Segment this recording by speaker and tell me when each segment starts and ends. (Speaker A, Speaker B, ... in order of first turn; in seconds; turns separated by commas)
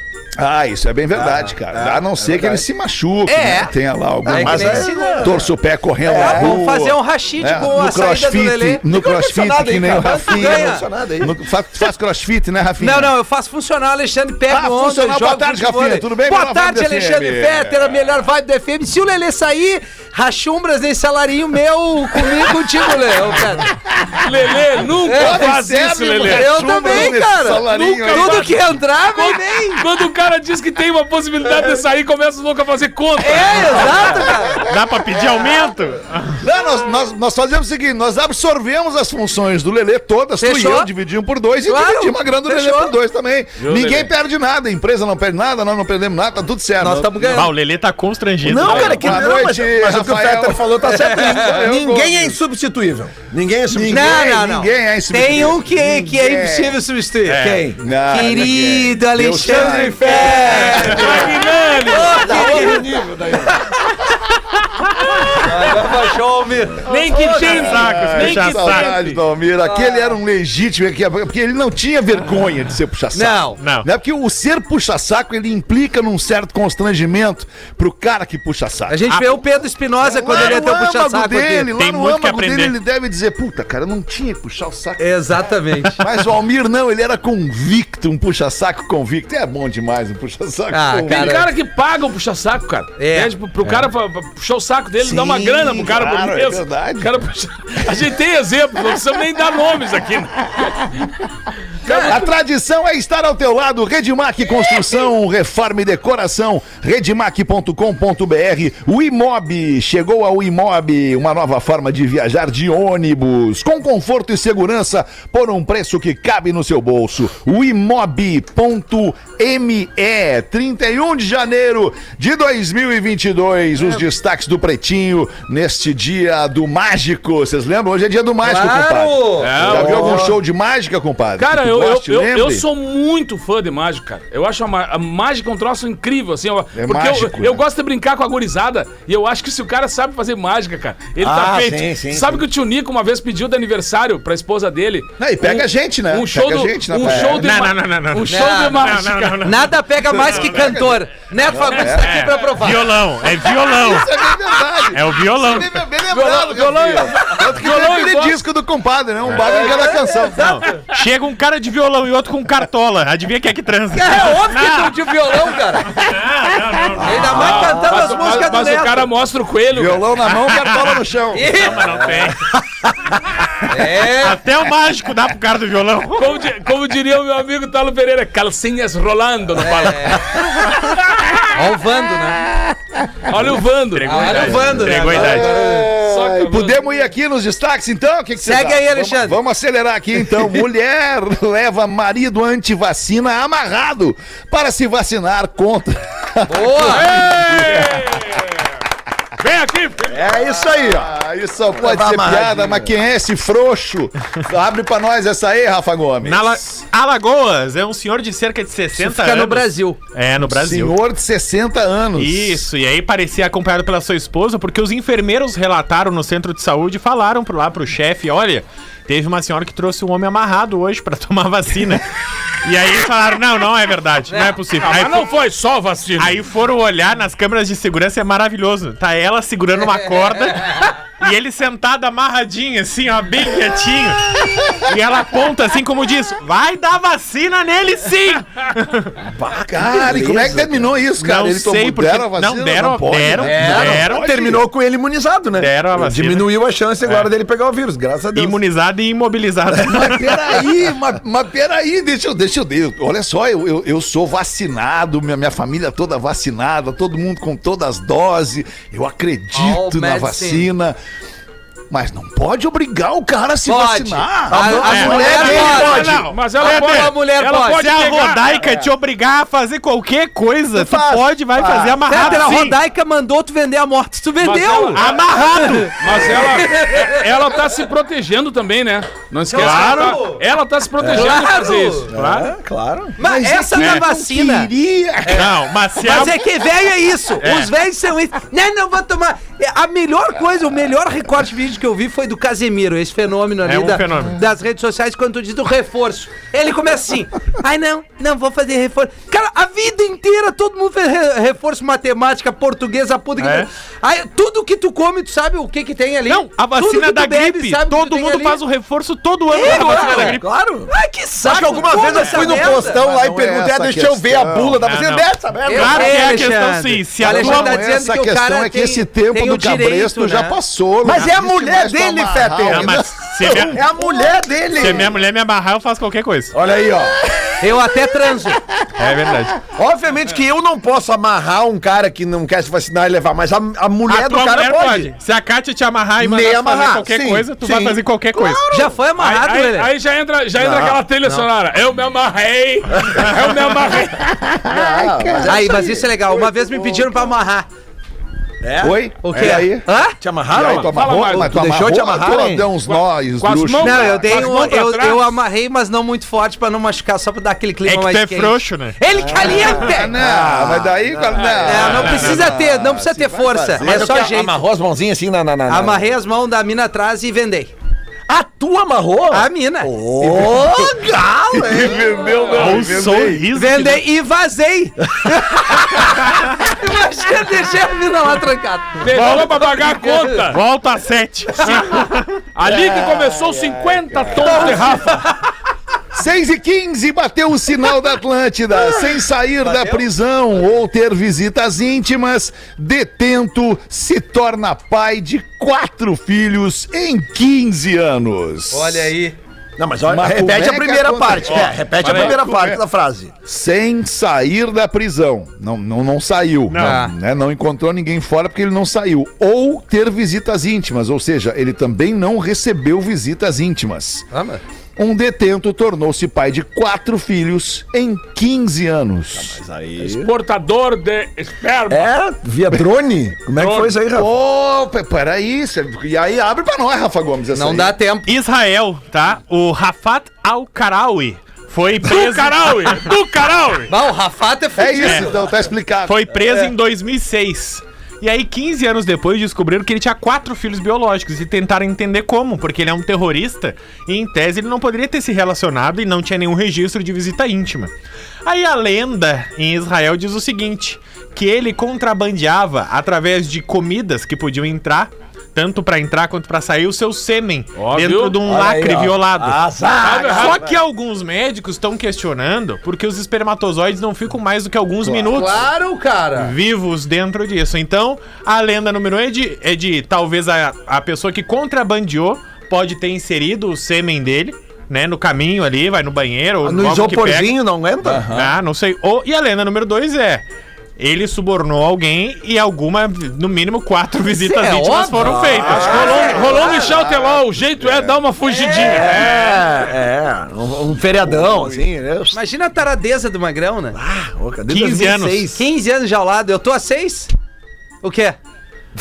Speaker A: 0.4-13.1, Speaker B: 1.1-2.6, Speaker C: 3.3-3.7, Speaker C: 4.2-5.4, Speaker B: 4.2-5.5, Speaker B: 6.0-6.6, Speaker C: 6.1-8.8, Speaker B: 8.9-11.3, Speaker C: 10.3-10.8, Speaker C: 12.8-23.7, Speaker A: 14.5-17.8, Speaker A: 23.8-24.3, Speaker D: 24.2-27.1, Speaker C: 25.0-25.5, Speaker A: 25.1-28.4, Speaker C: 26.2-29.9, Speaker D: 27.7-28.6, Speaker D: 29.1-34.1, Speaker C: 33.2-34.6, Speaker A: 33.9-35.6, Speaker E: 34.6-36.4, Speaker A: 36.4-47.5, Speaker C: 40.4-40.9, Speaker C: 41.7-43.0, Speaker D: 43.6-44.1, Speaker C: 46.8-47.5, Speaker E: 47.3-49.2, Speaker B: 48.4-54.3, Speaker A: 48.6-52.4, Speaker D: 48.7-49.0, Speaker C: 50.8-51.5, Speaker A: 53.7-56.8, Speaker C: 53.9-61.3, Speaker B: 57.3-57.8, Speaker E: 57.3-57.6, Speaker A: 57.7-61.3, Speaker B: 59.4-61.3, Speaker D: 60.8-62.7, Speaker C: 61.8-62.9, Speaker B: 61.9-63.6, Speaker C: 63.4-63.7, Speaker C: 65.4-67.8, Speaker D: 66.9-69.2, Speaker A: 67.2-79.0, Speaker E: 67.3-68.9, Speaker C: 69.6-70.2, Speaker C: 73.1-73.6, Speaker E: 73.6-73.9, Speaker C: 78.9-81.7, Speaker E: 79.1-79.4, Speaker A: 80.0-85.1, Speaker E: 80.3-80.6, Speaker E: 81.8-82.8, Speaker C: 85.0-86.0, Speaker A: 86.0-91.5, Speaker C: 90.7-91.5, Speaker D: 91.1-100.8, Speaker C: 93.0-93.3, Speaker A: 93.6-93.9, Speaker A: 95.0-97.1, Speaker C: 101.9-102.2, Speaker D: 101.9-102.3, Speaker A: 102.0-132.7, Speaker C: 128.4-129.5, Speaker D: 129.4-130.3, Speaker B: 129.6-130.4, Speaker D: 131.4-149.5, Speaker A: 136.8-137.6, Speaker B: 141.2-142.4, Speaker A: 145.2-147.5, Speaker B: 147.1-147.3, Speaker E: 147.3-149.8, Speaker C: 148.3-153.0, Speaker A: 150.0-152.2, Speaker E: 152.0-154.1, Speaker A: 153.4-160.8, Speaker E: 154.9-155.8, Speaker D: 156.1-158.4, Speaker C: 159.4-160.8, Speaker E: 160.4-168.3, Speaker C: 163.9-166.1, Speaker C: 167.0-169.1, Speaker D: 167.3-170.1, Speaker A: 169.7-172.0, Speaker E: 170.3-171.0, Speaker C: 171.3-172.0, Speaker E: 171.6-172.9, Speaker E: 173.7-176.4, Speaker C: 173.7-174.4, Speaker D: 176.2-181.2, Speaker C: 179.6-180.3, Speaker C: 181.5-182.5, Speaker A: 182.5-182.7, Speaker D: 183.3-187.1, Speaker E: 183.9-185.6, Speaker C: 184.1-185.9, Speaker A: 184.9-198.4, Speaker C: 188.4-189.4, Speaker C: 196.5-197.1, Speaker D: 196.9-198.6, Speaker D: 199.4-200.2, Speaker B: 200.0-201.1, Speaker A: 200.2-206.8, Speaker B: 201.6-202.9, Speaker E: 206.2-211.0, Speaker C: 208.9-210.0, Speaker A: 210.4-212.7, Speaker E: 212.2-222.1, Speaker E: 222.6-225.3, Speaker C: 224.3-224.6, Speaker D: 224.8-226.4, Speaker E: 226.2-239.1, Speaker B: 239.2-240.9, Speaker A: 239.7-244.6, Speaker E: 241.2-244.2, Speaker C: 243.4-244.1, Speaker B: 243.7-248.6, Speaker E: 245.6-246.5, Speaker E: 247.0-247.3, Speaker E: 248.3-250.6, Speaker A: 249.9-261.0, Speaker C: 259.5-260.7, Speaker A: 261.9-265.9, Speaker C: 263.7-267.8, Speaker B: 264.5-266.3, Speaker E: 264.9-272.8, Speaker D: 265.7-268.4, Speaker A: 270.8-272.4, Speaker B: 270.8-271.2, Speaker C: 272.1-277.3, Speaker D: 274.4-275.3, Speaker E: 274.9-276.3, Speaker D: 275.9-282.1, Speaker C: 279.5-280.4, Speaker E: 279.6-280.2, Speaker B: 281.0-281.4, Speaker C: 281.1-282.1, Speaker B: 282.1-283.2, Speaker E: 282.1-282.5, Speaker C: 283.2-284.7, Speaker A: 283.2-285.5, Speaker D: 283.8-284.0, Speaker E: 285.3-286.5, Speaker C: 286.0-308.6, Speaker E: 287.4-287.7, Speaker E: 293.6-294.4, Speaker E: 303.4-303.7, Speaker E: 306.3-310.5, Speaker C: 309.5-310.4, Speaker B: 310.1-310.9, Speaker C: 310.9-313.0, Speaker B: 311.4-316.3, Speaker A: 312.1-314.8, Speaker E: 314.8-317.8, Speaker C: 315.7-320.6, Speaker A: 317.2-323.8, Speaker B: 321.0-325.1, Speaker E: 322.6-323.8, Speaker E: 324.8-326.6, Speaker B: 326.5-327.2, Speaker C: 327.6-328.6, Speaker E: 329.0-329.6, Speaker B: 329.7-335.1, Speaker E: 334.1-338.6, Speaker B: 336.2-338.9, Speaker C: 338.7-339.9, Speaker D: 339.2-344.2, Speaker B: 340.6-341.0, Speaker A: 344.3-347.2, Speaker B: 344.7-346.1, Speaker C: 345.5-347.7, Speaker B: 348.6-349.7, Speaker A: 348.8-349.9, Speaker C: 349.2-350.2, Speaker B: 350.2-352.7, Speaker A: 350.5-354.3, Speaker D: 350.8-351.5, Speaker D: 352.9-355.3, Speaker C: 353.8-360.1, Speaker E: 357.9-359.0, Speaker B: 359.2-362.1, Speaker A: 359.4-364.3, Speaker C: 361.6-364.6, Speaker E: 361.8-362.5, Speaker B: 363.8-366.1, Speaker C: 365.7-367.7, Speaker B: 368.3-372.3, Speaker C: 369.3-369.9, Speaker A: 370.2-371.0, Speaker A: 371.5-373.5, Speaker D: 372.4-372.8, Speaker E: 372.5-374.1, Speaker C: 373.5-380.4, Speaker D: 379.0-380.6, Speaker E: 379.1-379.6, Speaker E: 380.5-382.4, Speaker C: 381.6-381.9, Speaker D: 382.6-385.3, Speaker A: 382.7-385.0, Speaker C: 384.4-385.4, Speaker A: 386.1-399.1, Speaker C: 389.6-390.0, Speaker C: 398.7-399.4, Speaker B: 399.8-403.3, Speaker A: 400.1-402.8, Speaker D: 401.5-402.4, Speaker A: 403.5-414.3, Speaker E: 406.7-407.1, Speaker C: 406.8-407.1, Speaker C: 414.3-414.6, Speaker A: 415.0-419.6, Speaker B: 419.3-420.3, Speaker D: 420.0-422.1, Speaker B: 421.9-424.3, Speaker D: 423.6-424.0, Speaker A: 424.1-427.9, Speaker C: 427.5-428.3, Speaker E: 428.3-433.0, Speaker D: 432.0-433.9, Speaker C: 433.9-435.4, Speaker A: 434.8-436.4, Speaker E: 435.0-435.3, Speaker E: 436.1-447.9, Speaker E: 448.4-459.6, Speaker D: 457.8-458.4, Speaker B: 458.4-460.8, Speaker D: 460.0-460.6, Speaker E: 460.1-465.6, Speaker B: 465.1-465.5, Speaker C: 465.3-466.6, Speaker E: 466.4-477.5, Speaker B: 476.6-478.3, Speaker A: 478.0-478.6, Speaker E: 478.3-480.4, Speaker E: 481.0-486.1, Speaker C: 484.3-487.0, Speaker B: 485.2-486.6, Speaker D: 485.8-489.6, Speaker A: 485.8-488.2, Speaker C: 488.4-489.2, Speaker B: 488.7-492.4, Speaker A: 491.1-491.9, Speaker C: 492.3-494.0, Speaker B: 493.9-495.6, Speaker E: 494.7-495.5, Speaker C: 495.5-497.3, Speaker C: 498.0-498.4